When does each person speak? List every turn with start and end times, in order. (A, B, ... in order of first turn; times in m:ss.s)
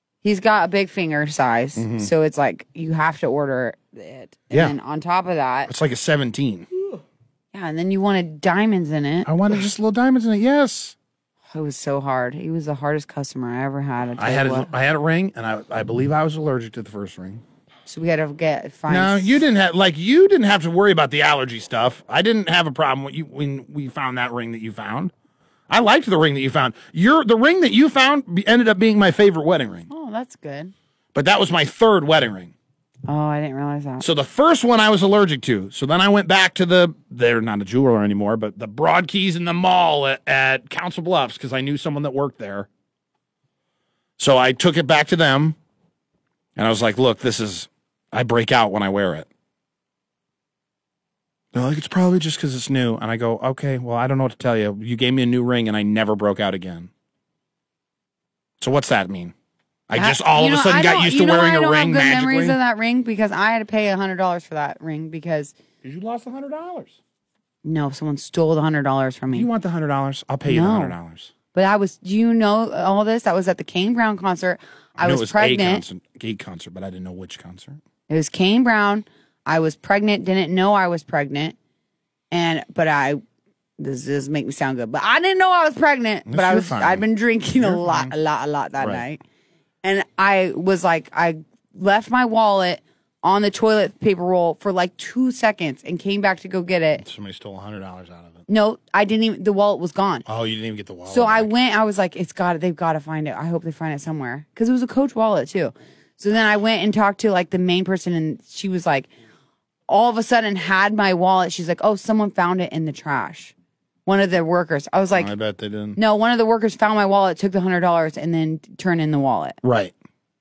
0:00.2-0:05.7 A
0:01.8-0:02.1 B
0:05.7-0:06.7 B
0:07.5-0:09.3 A
0:09.3-0:11.0 B
0:11.5-0:14.7 A
0:14.2-0:17.4 B
0:17.9-0:19.4 A
0:18.9-0:25.1 B
0:25.7-0:29.9 B
0:29.9-0:30.7 A
0:31.1-0:32.5 B
0:33.1-0:34.0 A
0:34.0-0:42.7 B
0:44.2-0:45.6 B
0:46.6-0:49.3 B
0:51.5-0:56.9 B
0:58.6-0:59.3 B
0:59.9-1:02.6 B
1:00.0-1:05.5 A
1:05.8-1:07.0 B
1:07.6-1:09.5 A
1:09.3-1:11.3 B
1:10.5-1:11.0 A
1:11.5-1:15.8 A
1:15.0-1:17.8 B
1:18.1-1:21.6 A
1:22.3-1:23.2 A
1:23.8-1:29.2 A
1:26.3-1:27.0 B
1:27.6-1:28.1 B
1:28.8-1:29.0 B
1:29.8-1:37.0 A
1:37.0-1:38.4 B
1:38.5-1:40.2 A
1:40.3-1:41.5 B
1:41.1-1:49.1 A
1:49.9-1:53.5 A
1:54.1-1:55.3 A
1:55.2-1:56.0 B
1:56.0-1:59.6 A
1:59.6-1:59.9 B